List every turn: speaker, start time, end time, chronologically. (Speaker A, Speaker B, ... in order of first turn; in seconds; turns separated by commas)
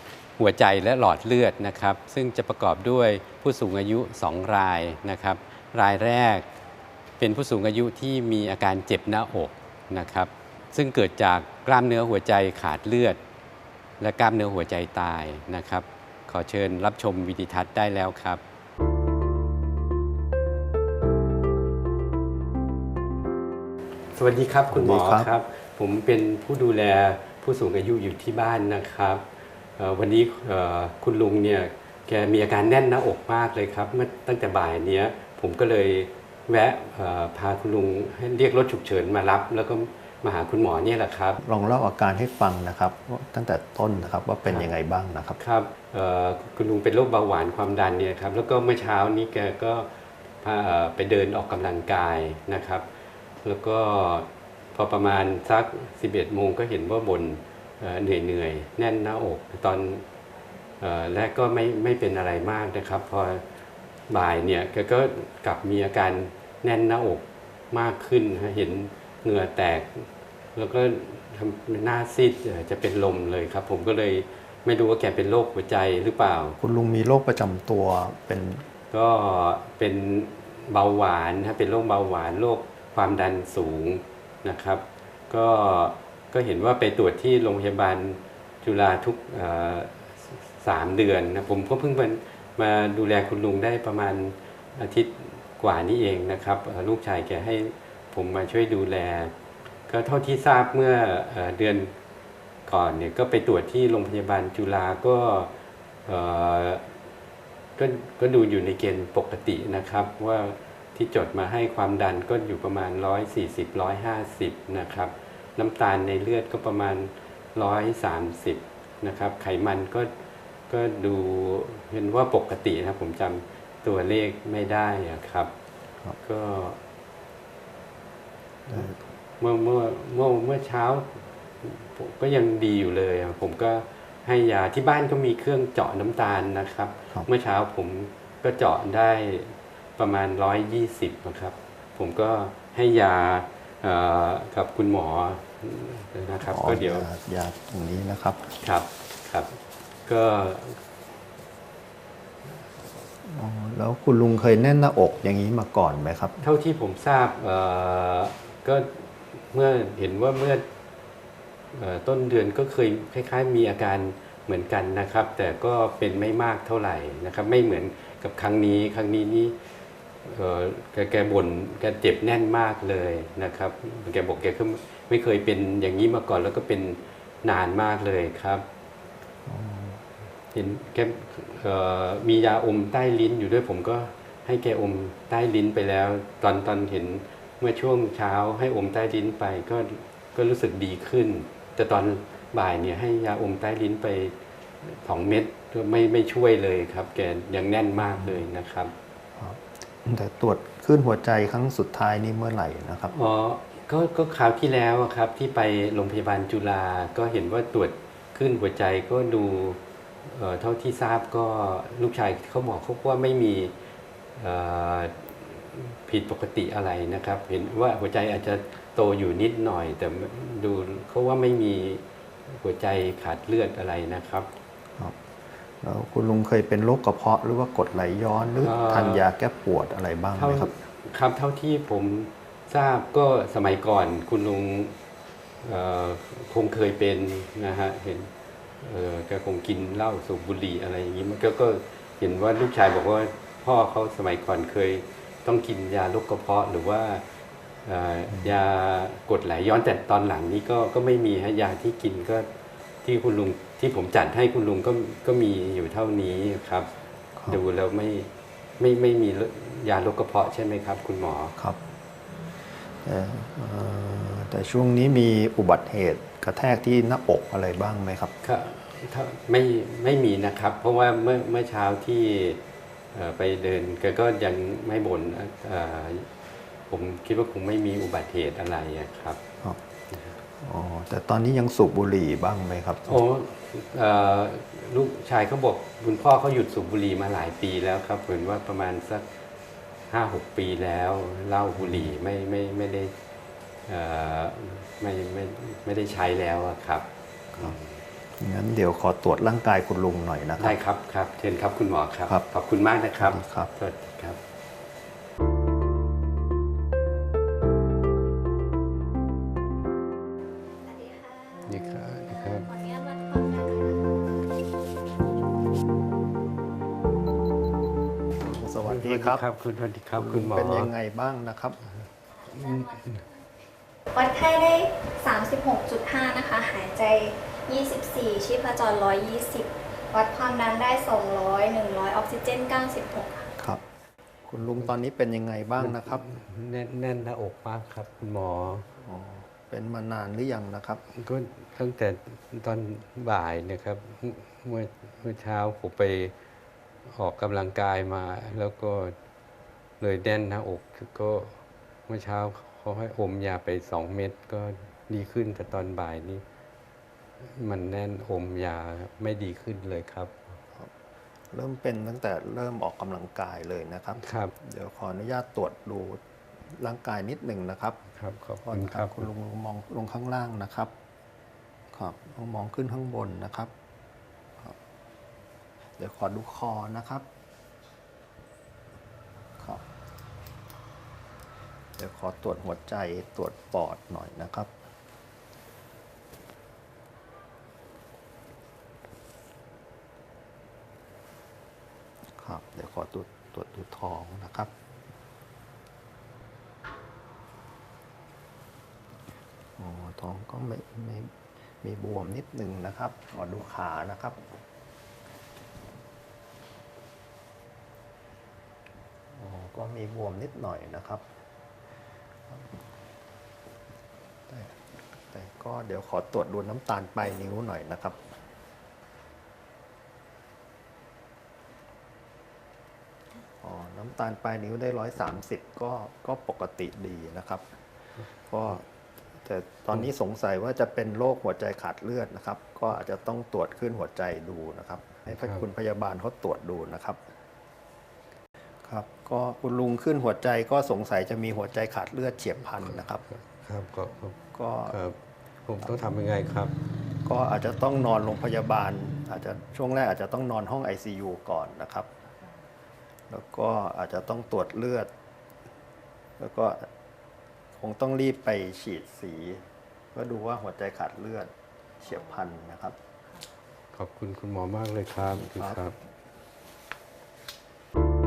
Speaker A: 0.4-6.5, Speaker A: 7.2-13.2, Speaker A: 14.0-18.4, Speaker A: 24.1-29.2, Speaker B: 24.7-25.3, Speaker A: 29.8-41.4, Speaker B: 41.4-45.4, Speaker A: 45.4-49.9, Speaker A: 50.4-52.9, Speaker A: 53.4-60.0, Speaker A: 60.8-63.4, Speaker A: 64.1-76.6, Speaker B: 76.6-78.6, Speaker A: 78.9-99.3, Speaker A: 99.9-101.9, Speaker A: 102.7-105.5, Speaker A: 106.0-106.8, Speaker A: 107.8-120.1, Speaker A: 120.7-125.5, Speaker A: 126.2-126.8, Speaker B: 128.7-129.0, Speaker A: 129.4-147.1, Speaker B: 146.4-148.6, Speaker A: 148.6-150.8, Speaker B: 153.2-156.4, Speaker A: 156.4-160.6, Speaker A: 161.7-169.5, Speaker A: 170.2-178.6, Speaker B: 179.4-180.0, Speaker A: 180.5-198.9, Speaker B: 198.0-198.4, Speaker B: 199.4-203.1, Speaker A: 203.1-213.7, Speaker A: 214.3-224.5, Speaker B: 225.8-230.7, Speaker A: 228.6-229.2, Speaker A: 230.3-234.9, Speaker A: 235.6-247.2, Speaker A: 247.8-252.5, Speaker A: 253.0-256.9, Speaker A: 257.5-261.5, Speaker B: 263.0-268.3, Speaker A: 268.4-272.6, Speaker A: 273.1-276.3, Speaker A: 276.9-279.4, Speaker A: 280.1-280.4, Speaker B: 280.6-283.2, Speaker A: 283.1-289.2, Speaker A: 290.1-293.1, Speaker B: 291.8-292.1, Speaker A: 293.9-298.0, Speaker B: 298.4-300.8, Speaker A: 300.6-304.4, Speaker B: 303.2-303.7, Speaker C: 310.8-314.2, Speaker A: 311.6-312.7, Speaker B: 318.4-319.4, Speaker A: 318.8-320.9, Speaker B: 320.1-321.8, Speaker A: 322.4-323.2, Speaker C: 324.1-333.5, Speaker B: 334.5-336.2, Speaker A: 335.8-338.9, Speaker B: 339.0-341.0, Speaker A: 341.1-346.3, Speaker A: 347.1-349.1, Speaker A: 350.0-356.4, Speaker A: 357.4-360.5, Speaker B: 361.5-366.2, Speaker A: 364.2-364.5, Speaker B: 366.8-368.0, Speaker A: 368.1-369.3, Speaker B: 368.6-370.9, Speaker B: 371.9-373.7, Speaker B: 376.0-377.2, Speaker B: 382.0-384.7, Speaker B: 392.4-394.7, Speaker B: 399.8-404.4, Speaker B: 409.3-411.2, Speaker B: 414.5-418.2, Speaker B: 423.6-427.6, Speaker B: 428.5-428.9, Speaker B: 429.4-437.2, Speaker A: 435.4-435.6, Speaker B: 438.8-443.2, Speaker A: 442.8-446.7, Speaker B: 444.5-445.0, Speaker B: 447.2-452.1, Speaker B: 453.3-455.1, Speaker B: 456.4-456.9, Speaker B: 457.8-462.9, Speaker A: 463.9-465.9, Speaker B: 465.4-465.9